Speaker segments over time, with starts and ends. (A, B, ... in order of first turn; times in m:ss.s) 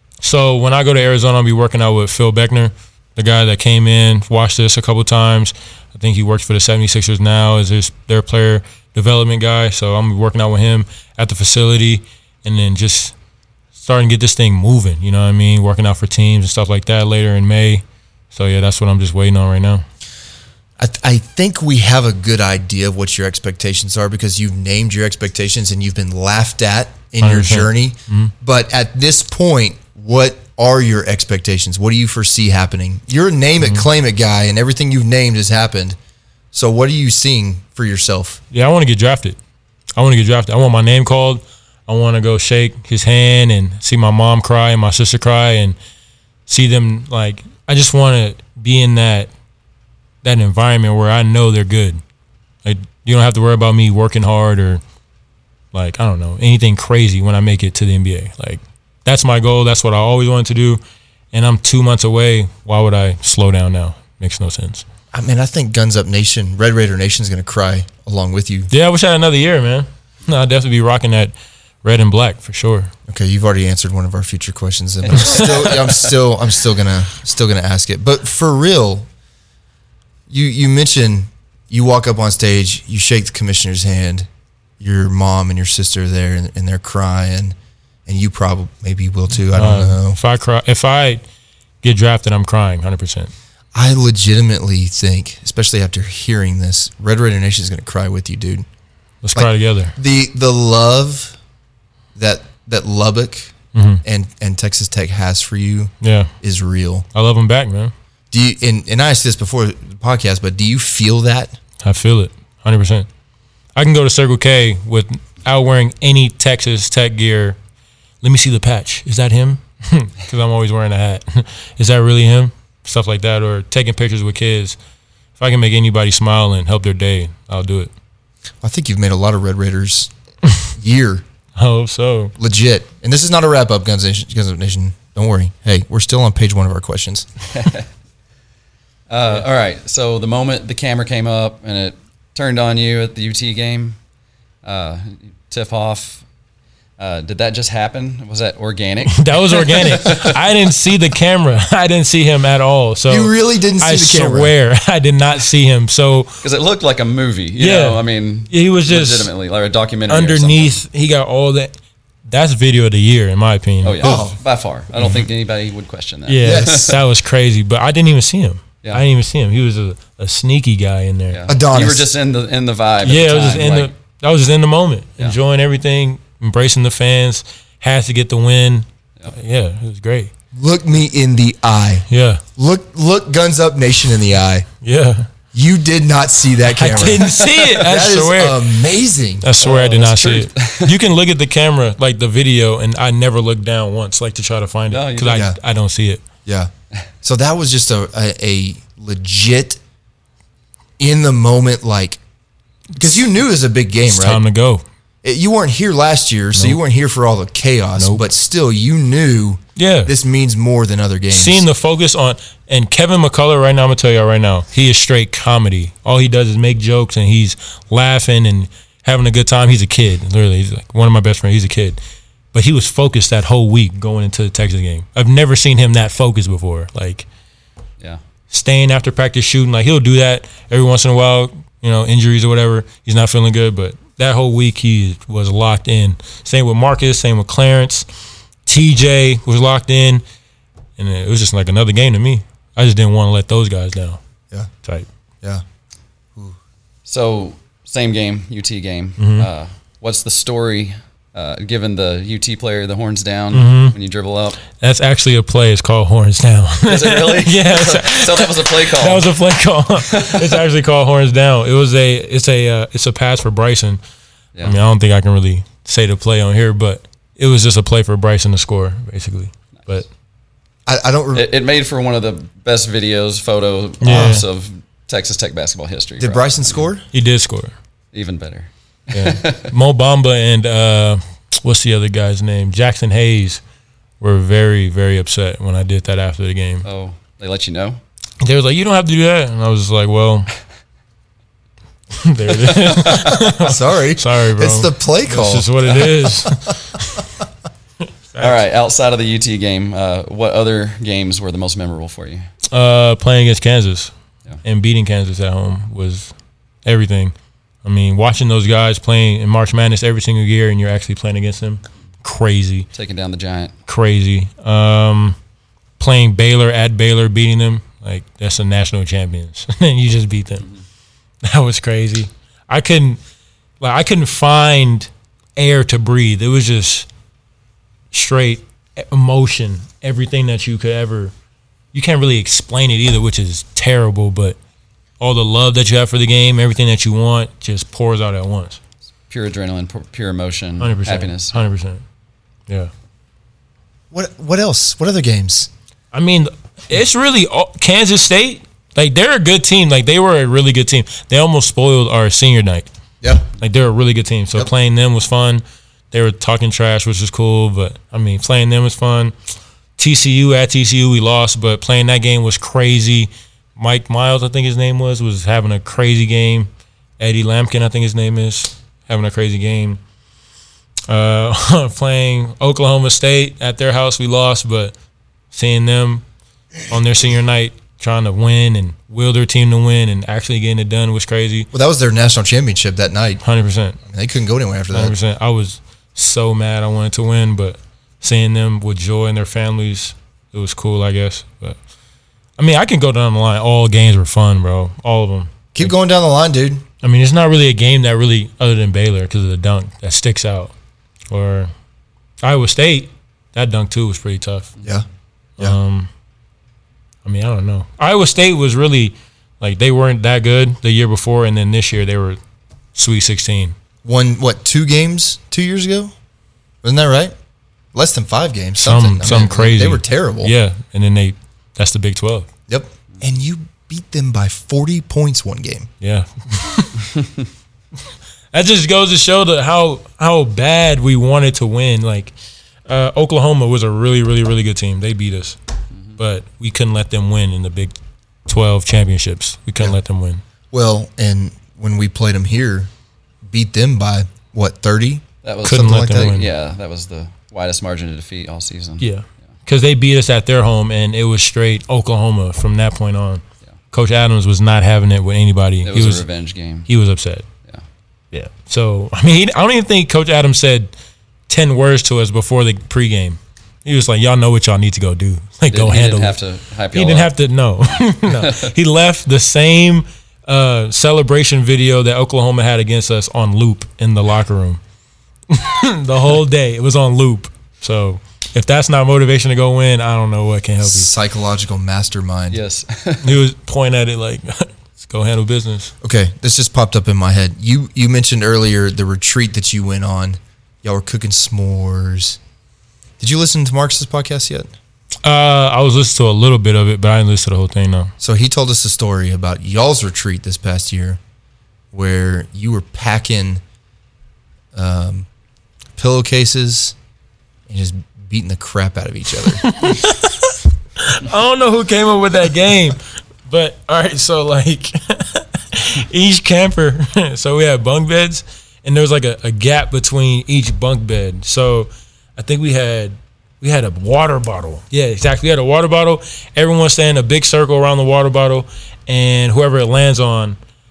0:00.2-0:13.1 A
0:13.7-0:19.8 A
0:20.8-0:36.0 B
0:27.2-0:28.3 A
0:36.5-0:38.4 B
0:38.5-0:39.4 A
0:40.0-0:45.8 A
0:46.5-0:49.3 A
0:50.2-0:52.0 A
0:52.6-0:54.8 A
0:55.7-1:00.8 A
1:01.3-1:04.8 A
1:05.1-1:08.7 B
1:08.7-1:12.9 A
1:13.1-1:19.1 B
1:15.1-1:16.1 C
1:20.3-1:24.3 B
1:24.8-1:27.6 B
1:28.0-1:30.2 B
1:29.5-1:31.2 A
1:31.8-1:33.3 A
1:33.7-1:38.6 B
1:39.2-1:40.0 A
1:39.3-1:41.4 B
1:42.1-1:47.0 B
1:43.7-1:44.0 A
1:46.0-1:46.3 A
1:47.1-1:47.9 A
1:48.3-1:51.6 B
1:51.8-1:53.1 A
1:53.8-1:57.6 A
1:58.2-2:04.8 A
2:05.4-2:07.9 A
2:08.6-2:10.1 B
2:10.6-2:11.2 B
2:11.6-2:12.3 A
2:12.4-2:17.3 B
2:17.5-2:17.9 C
2:19.1-2:24.0 C
2:24.6-2:26.2 C
2:27.0-2:30.3 C
2:29.1-2:36.4 A
2:33.1-2:34.5 B
2:36.4-2:40.8 C
2:37.6-2:39.3 A
2:40.1-2:44.3 A
2:43.8-2:47.0 C
2:44.0-2:44.4 B
2:45.0-2:45.3 A
2:46.3-2:51.4 A
2:46.4-2:46.9 B
2:51.3-2:53.9 C
2:51.5-2:52.1 B
2:53.0-3:00.3 A
3:00.5-3:04.7 B
3:02.1-3:02.4 A
3:04.8-3:05.3 A
3:05.5-3:09.5 B
3:06.7-3:08.7 A
3:09.4-3:16.2 A
3:09.6-3:11.0 C
3:14.9-3:15.5 C
3:15.3-3:15.6 B
3:16.4-3:16.7 B
3:17.2-3:19.8 B
3:21.0-3:22.2 B
3:23.0-3:24.4 B
3:24.1-3:24.8 A
3:25.2-3:31.6 B
3:26.5-3:26.8 A
3:28.0-3:28.3 A
3:29.8-3:30.1 A
3:31.3-3:42.0 A
3:42.5-3:47.3 A
3:48.5-3:58.1 A
3:58.6-4:00.2 A
4:01.0-4:04.2 A
4:04.8-4:05.1 A
4:07.0-4:14.6 C
4:09.2-4:09.5 A
4:13.5-4:13.9 A
4:14.7-4:24.0 A
4:16.9-4:19.3 C
4:20.0-4:20.6 C
4:24.6-4:30.1 A
4:30.9-4:31.5 B
4:31.3-4:36.9 C
4:34.0-4:34.4 A
4:34.1-4:34.3 B
4:36.2-4:37.0 B
4:37.1-4:37.7 A
4:38.1-4:39.7 C
4:39.1-4:43.6 A
4:44.2-4:46.9 A
4:46.8-4:48.0 C
4:48.4-4:50.5 A
4:52.1-4:57.3 A
4:52.7-4:53.4 C
4:53.6-4:56.6 B
4:58.0-4:58.6 A
4:58.4-5:02.5 C
5:02.7-5:06.3 A
5:06.8-5:12.9 A
5:12.9-5:13.7 C
5:13.9-5:15.4 A
5:16.0-5:20.7 A
5:21.4-5:23.2 A
5:23.8-5:27.1 A
5:28.1-5:31.3 A
5:31.9-5:34.6 A
5:35.2-5:38.8 A
5:39.3-5:41.6 C
5:40.8-5:42.0 A
5:44.1-5:45.7 B
5:46.1-5:52.9 A
5:53.6-5:59.3 A
6:00.0-6:10.0 A
6:11.1-6:14.9 A
6:15.5-6:16.2 A
6:16.9-6:21.7 A
6:21.7-6:23.4 B
6:23.4-6:24.0 A
6:24.0-6:25.1 B
6:24.9-6:31.8 A
6:32.6-6:35.9 A
6:35.7-6:36.8 B
6:37.0-6:40.7 A
6:41.3-6:41.7 A
6:42.4-6:44.7 A
6:45.6-6:46.1 A
6:47.2-6:52.4 A
6:53.0-6:53.8 A
6:54.0-6:56.1 B
6:56.8-6:57.3 B
6:57.9-7:00.5 B
6:58.8-7:02.5 A
7:02.7-7:05.9 B
7:06.0-7:07.0 A
7:08.5-7:12.3 A
7:12.9-7:15.6 A
7:16.2-7:17.9 A
7:18.4-7:20.4 A
7:20.7-7:22.9 B
7:23.4-7:26.4 B
7:25.4-7:29.1 C
7:25.6-7:26.5 A
7:29.0-7:36.2 A
7:35.9-7:36.9 C
7:36.9-7:37.4 A
7:38.3-7:40.9 A
7:41.5-7:46.4 A
7:45.7-7:47.3 C
7:46.9-7:54.8 A
7:48.3-7:48.7 C
7:55.5-8:01.1 A
8:00.8-8:02.6 B
8:02.5-8:03.2 C
8:03.2-8:05.9 A
8:06.0-8:12.4 B
8:13.2-8:14.7 B
8:15.2-8:18.1 A
8:18.2-8:21.2 B
8:21.9-8:23.6 B
8:24.7-8:25.3 B
8:26.0-8:27.0 B
8:27.7-8:29.6 B
8:29.6-8:50.6 A